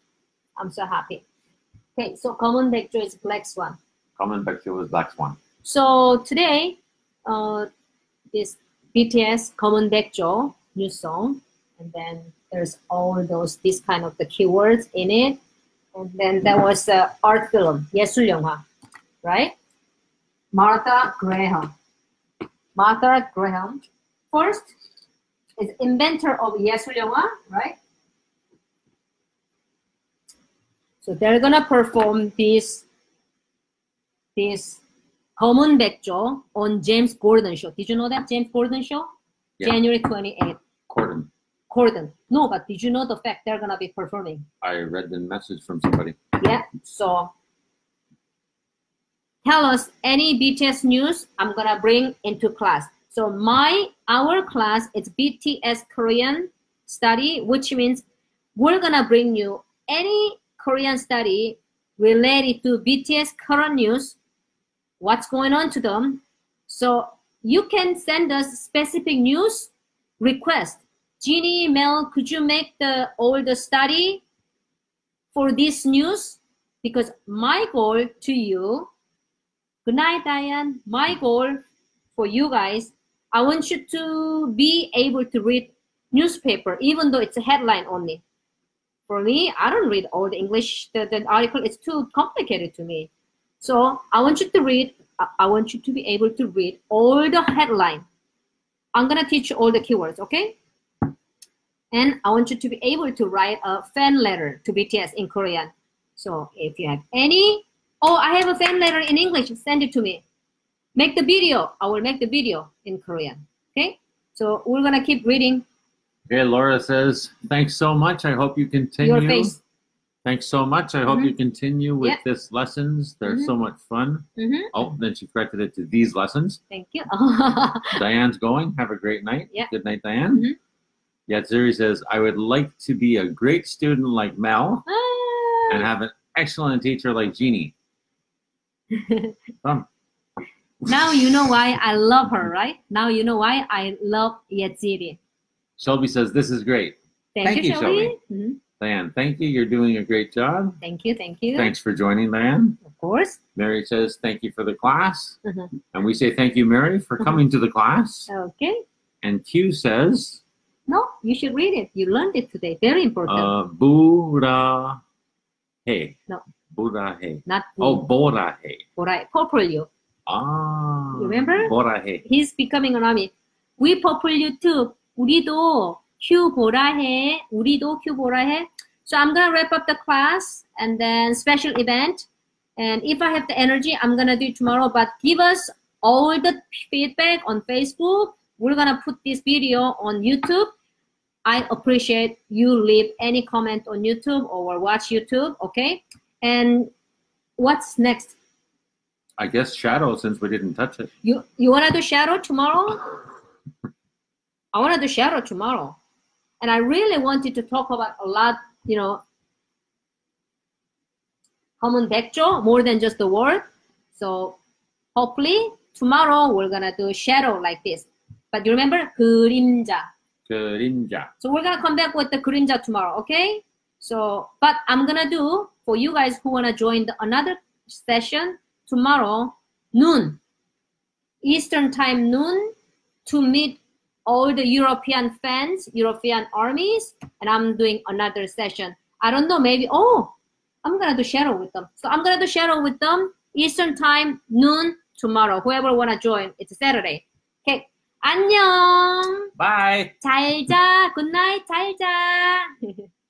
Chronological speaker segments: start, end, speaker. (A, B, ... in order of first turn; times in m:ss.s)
0:00.6-0:01.2 A
0:02.0-0:03.8 A
0:04.2-0:05.4 B
0:05.6-0:07.7 A
0:08.3-0:15.4 A
0:16.0-0:18.6 A
0:19.2-0:19.6 A
0:20.5-0:21.7 A
0:22.8-0:24.7 A
0:25.6-0:27.8 A
0:31.0-0:32.8 A
0:34.4-0:34.8 A
0:35.4-0:39.1 A
0:39.6-0:40.6 A
0:40.9-0:41.3 B
0:41.7-0:44.4 A
0:44.6-0:46.2 B
0:46.4-0:47.3 A
0:49.4-0:58.0 A
0:58.6-1:04.2 A
1:05.0-1:14.2 A
1:15.3-1:18.9 A
1:19.9-1:21.6 A
1:22.2-1:28.2 A
1:29.1-1:33.1 A
1:33.6-1:38.0 A
1:39.0-1:40.6 A
1:41.9-1:50.2 A
1:51.0-1:55.6 A
1:56.3-1:59.6 B
1:59.0-1:59.6 A
2:00.2-2:06.6 B
2:03.3-2:03.5 A
2:04.4-2:04.7 A
2:06.7-2:08.0 A
2:07.9-2:10.5 B
2:10.3-2:10.6 A
2:11.3-2:14.9 B
2:14.9-2:15.9 A
2:15.7-2:17.7 B
2:18.9-2:19.3 A
2:20.9-2:25.2 A
2:20.9-2:21.5 B
2:25.8-2:28.2 B
2:27.4-2:28.6 A
2:28.8-2:30.8 B
2:30.8-2:31.7 A
2:31.6-2:32.8 B
2:32.8-2:33.4 A
2:33.6-2:35.4 B
2:35.4-2:35.7 A
2:35.9-2:38.3 B
2:38.3-2:38.8 A
2:39.2-2:40.4 B
2:40.9-2:43.5 A
2:43.3-2:45.0 B
2:45.9-2:46.2 B
2:46.7-2:48.8 B
2:47.5-2:48.1 A
2:49.0-2:49.9 A
2:50.3-2:52.2 B
2:51.1-2:51.7 A
2:52.2-3:10.7 A
3:11.5-3:16.9 A
3:17.6-3:18.4 A
3:19.4-3:21.1 B
3:21.2-3:23.1 A
3:24.7-3:26.0 A
3:26.6-3:29.2 A
3:31.8-3:34.6 A
3:35.2-3:40.1 A
3:40.5-3:41.3 B
3:41.4-3:50.4 A
3:51.4-3:52.7 A
3:53.3-4:09.5 A
4:09.6-4:10.2 B
4:10.2-4:13.0 A